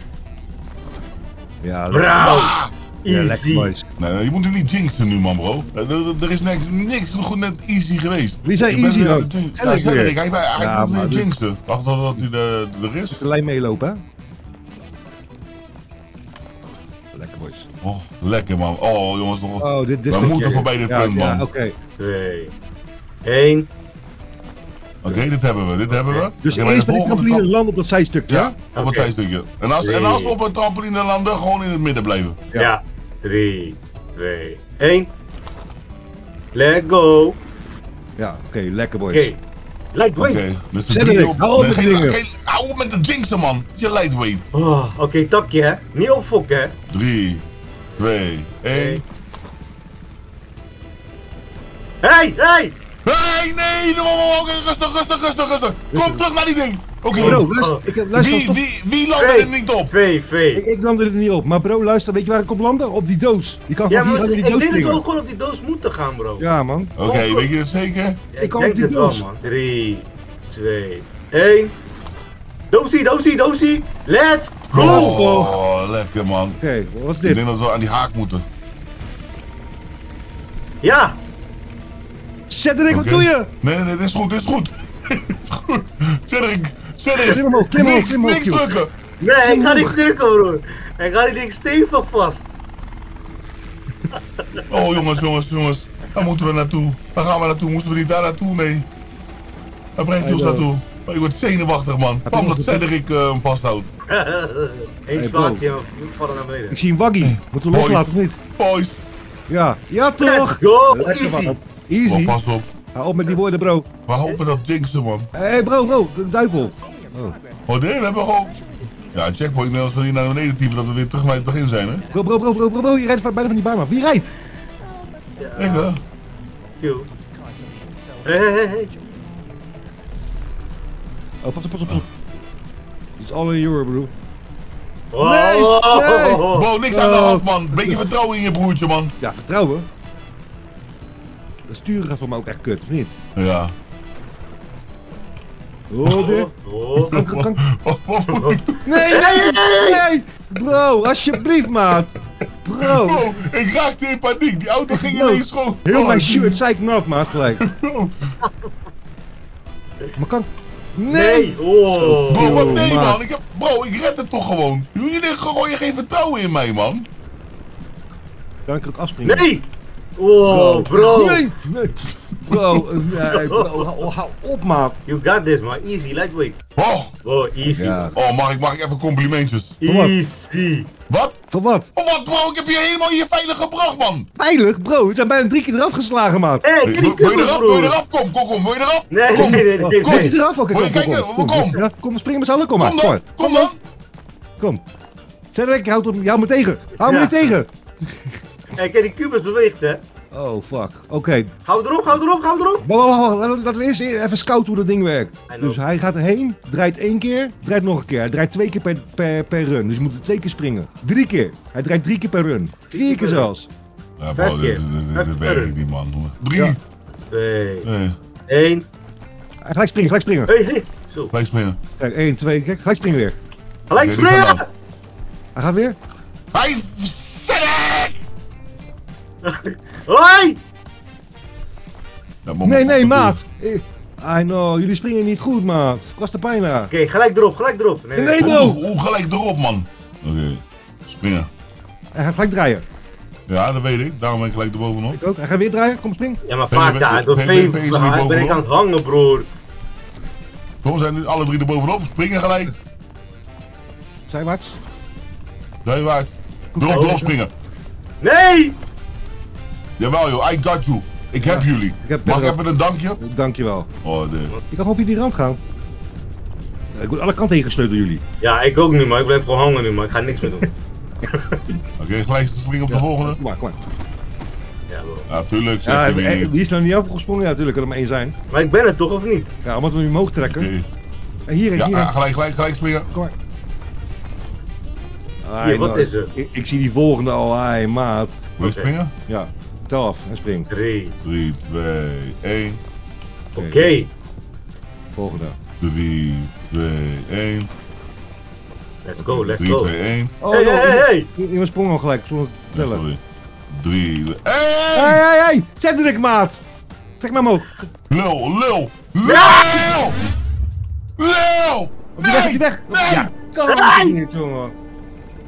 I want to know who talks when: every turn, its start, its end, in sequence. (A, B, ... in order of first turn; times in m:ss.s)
0:01.6-0:02.3 A
0:01.9-0:03.7 B
0:02.2-0:02.7 C
0:03.1-0:03.8 A
0:04.0-0:13.2 C
0:08.4-0:11.3 A
0:13.1-0:14.0 A
0:17.1-0:17.7 A
0:17.8-0:21.4 C
0:19.6-0:21.7 A
0:22.0-0:22.5 B
0:23.2-0:23.7 B
0:25.0-0:27.5 C
0:25.9-0:26.3 B
0:26.4-0:28.5 A
0:28.3-0:32.4 C
0:28.7-0:29.1 B
0:29.8-0:30.4 B
0:32.6-0:35.1 B
0:36.5-0:37.4 B
0:38.2-0:39.3 A
0:39.1-0:39.4 B
0:39.9-0:40.4 B
0:40.2-0:44.4 C
0:40.9-0:42.2 A
0:44.5-0:46.7 B
0:46.9-0:47.4 C
0:48.0-0:49.0 C
0:48.7-0:49.0 B
0:52.0-0:52.7 B
0:53.0-0:57.5 C
0:55.9-0:56.2 A
0:57.1-0:57.8 B
0:57.1-0:58.6 A
0:58.1-0:59.9 C
0:59.2-1:00.6 B
1:00.5-1:05.0 A
1:03.9-1:06.4 B
1:06.4-1:06.9 A
1:07.0-1:08.2 C
1:07.0-1:07.5 B
1:08.3-1:11.7 B
1:08.4-1:09.2 A
1:12.7-1:15.2 B
1:14.7-1:16.6 C
1:14.7-1:15.5 A
1:16.6-1:17.4 A
1:17.2-1:18.4 C
1:20.8-1:21.2 B
1:22.5-1:23.5 A
1:22.9-1:28.9 C
1:27.2-1:28.7 A
1:29.2-1:32.5 B
1:29.4-1:30.0 A
1:34.7-1:38.9 C
1:40.0-1:43.9 C
1:40.2-1:40.6 A
1:42.3-1:42.8 A
1:44.1-1:46.8 B
1:45.2-1:45.6 A
1:46.7-1:48.4 A
1:47.2-1:49.0 C
1:49.5-1:52.4 A
1:50.2-1:51.6 B
1:52.0-1:52.7 C
1:52.9-1:53.9 A
1:54.1-1:55.3 C
1:55.3-1:57.4 A
1:57.6-2:02.0 C
2:02.1-2:04.3 A
2:05.4-2:05.9 B
2:05.6-2:06.0 C
2:06.8-2:07.1 B
2:08.2-2:08.9 B
2:11.4-2:12.1 A
2:13.2-2:14.1 A
2:15.1-2:16.7 B
2:15.2-2:18.0 A
2:16.5-2:19.1 C
2:19.2-2:19.8 A
2:21.7-2:23.1 A
2:23.3-2:23.7 C
2:25.9-2:26.5 A
2:26.0-2:26.3 C
2:26.1-2:27.2 B
2:27.0-2:28.8 C
2:27.1-2:27.6 A
2:28.3-2:30.0 B
2:28.8-2:33.3 A
2:32.8-2:36.6 C
2:34.9-2:37.6 A
2:37.6-2:38.3 C
2:38.4-2:38.7 B
2:40.2-2:43.2 A
2:41.1-2:42.9 B
2:42.3-2:47.1 C
2:48.7-2:49.4 A
2:49.2-2:49.6 B
2:50.2-2:51.4 B
2:50.4-2:55.0 A
2:52.4-2:52.9 C
2:53.3-2:53.9 B
2:55.1-2:56.6 B
2:56.8-2:57.1 C
2:57.2-2:58.1 B
2:57.7-2:58.2 A
2:58.1-2:59.8 C
2:59.8-3:00.9 B
2:59.8-3:00.1 A
3:01.1-3:01.4 C
3:01.5-3:01.9 A
3:01.9-3:04.3 C
3:04.4-3:06.6 A
3:06.6-3:07.9 B
3:06.8-3:11.8 C
3:09.1-3:10.4 B
3:09.8-3:13.7 A
3:12.8-3:13.8 C
3:15.5-3:17.7 A
3:17.0-3:17.6 B
3:18.8-3:20.0 B
3:20.3-3:21.5 A
3:21.6-3:22.8 B
3:22.8-3:33.7 A
3:25.5-3:25.8 B
3:32.9-3:33.5 B
3:34.2-3:36.8 C
3:34.4-3:35.7 B
3:37.3-3:37.9 B
3:37.8-3:38.2 C
3:38.5-3:38.8 B
3:39.6-3:40.5 A
3:40.5-3:41.3 B
3:41.3-3:41.8 C
3:42.0-3:43.4 A
3:43.9-3:44.7 B
3:43.9-3:44.6 C
3:45.6-3:46.0 A
3:46.5-3:48.2 C
3:49.4-3:50.6 B
3:52.4-3:53.4 C
3:52.6-3:56.9 A
3:56.9-3:58.7 B
3:58.2-3:58.8 A
3:58.4-4:01.5 C
4:02.1-4:02.8 A
4:03.5-4:05.2 C
4:05.1-4:06.4 A
4:06.4-4:09.5 B
4:06.7-4:08.6 C
4:10.8-4:12.7 C
4:14.3-4:14.8 A
4:15.8-4:17.5 C
4:16.7-4:17.3 A
4:16.9-4:17.2 B
4:18.2-4:18.8 B
4:20.0-4:23.2 C
4:21.4-4:22.6 A
4:23.2-4:23.9 A
4:24.0-4:24.5 C
4:24.7-4:25.6 A
4:26.9-4:28.2 A
4:28.4-4:30.7 B
4:31.3-4:31.6 B
4:32.0-4:33.4 C
4:32.9-4:33.8 A
4:34.9-4:35.3 B
4:35.3-4:36.5 C
4:35.8-4:38.3 A
4:38.5-4:39.5 B
4:39.6-4:40.7 A
4:40.4-4:40.8 C
4:41.5-4:42.1 A
4:41.8-4:43.1 C
4:45.4-4:48.4 A
4:45.6-4:46.3 B
4:48.6-4:48.9 B
4:48.6-4:49.1 C
4:49.3-4:50.7 A
4:50.7-4:51.2 B
4:51.2-4:52.8 C
4:53.6-4:53.9 A
4:53.6-4:54.1 B
4:55.2-4:55.6 A
4:55.8-4:57.7 C
4:59.0-4:59.9 B
4:59.2-4:59.5 A
4:59.6-5:00.3 C
5:00.4-5:03.0 A
5:00.5-5:01.3 B
5:02.7-5:05.2 C
5:04.9-5:06.6 A
5:07.2-5:07.9 A
5:08.1-5:10.2 C
5:09.2-5:09.9 B
5:11.2-5:13.3 C
5:12.2-5:14.7 A
5:13.7-5:14.2 B